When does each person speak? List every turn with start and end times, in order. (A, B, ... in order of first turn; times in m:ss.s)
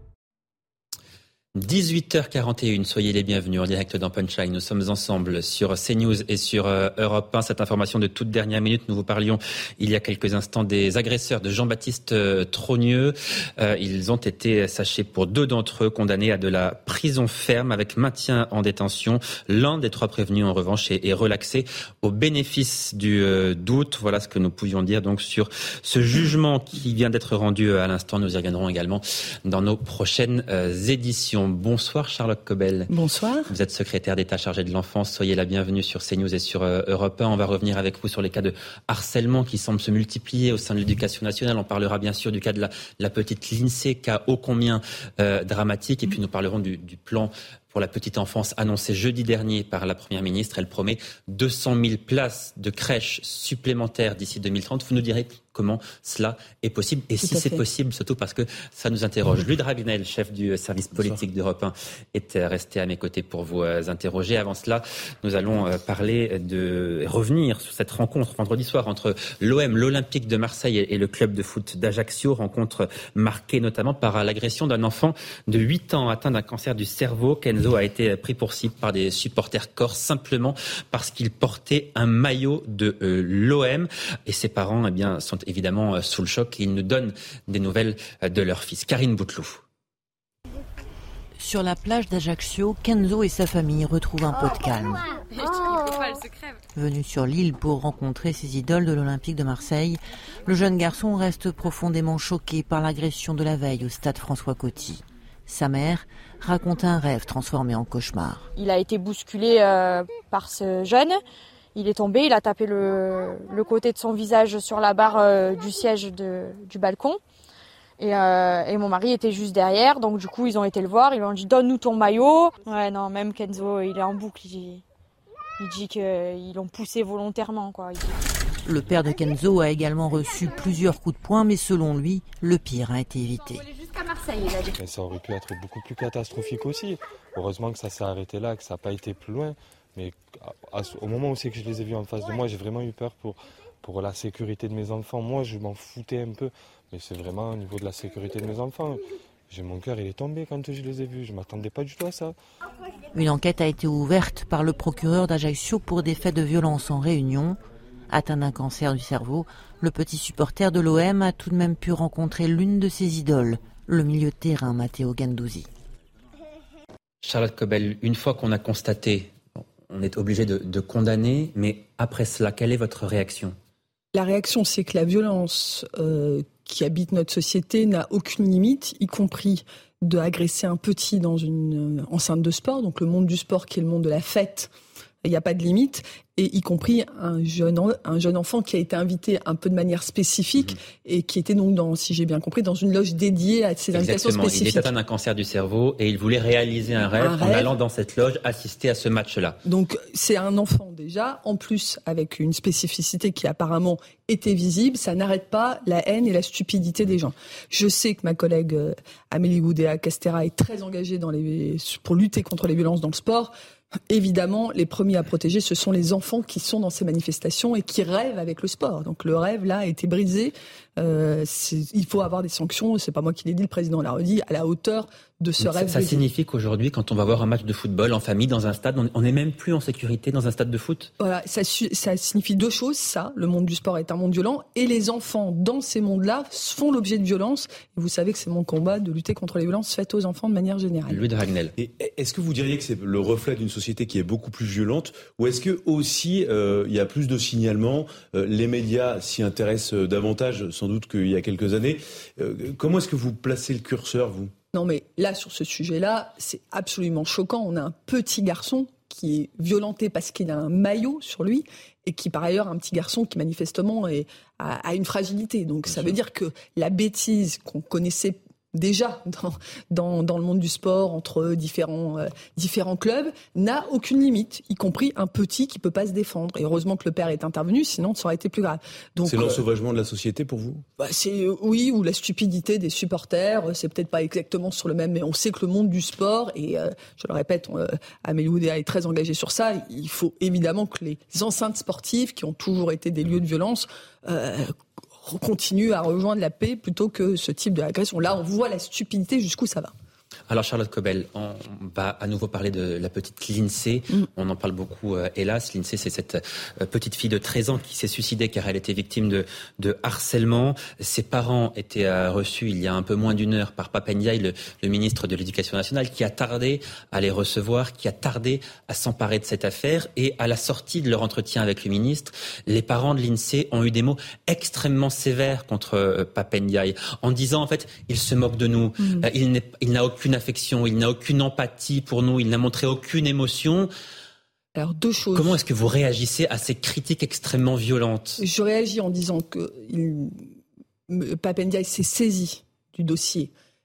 0:01.6-0:32.9 A
0:32.9-0:33.5 B
0:33.5-1:29.6 A
0:57.2-0:57.6 B
1:31.4-1:35.0 C
1:36.8-1:48.5 C
1:48.6-1:51.2 D
1:51.8-1:57.2 D
1:58.0-2:04.8 D
2:05.6-2:08.1 D
2:08.6-2:13.6 C
2:14.8-2:32.4 E
2:33.1-2:45.7 C
2:47.2-2:53.6 A
2:54.1-3:04.7 B
3:05.2-3:14.9 B
3:13.9-3:19.6 A
3:17.0-3:17.7 B
3:19.6-3:33.5 B
3:34.1-3:46.2 B
3:45.6-3:51.1 A
3:51.2-4:01.2 B
4:01.1-4:01.7 A
4:01.8-4:14.5 F
4:14.7-4:39.6 B
4:39.3-4:40.8 F
4:41.0-4:59.9 B
5:00.5-5:33.9 A
5:29.0-5:29.3 B
5:34.8-5:35.6 B
5:35.3-5:38.4 A
5:38.4-5:40.4 B
5:41.1-5:43.5 B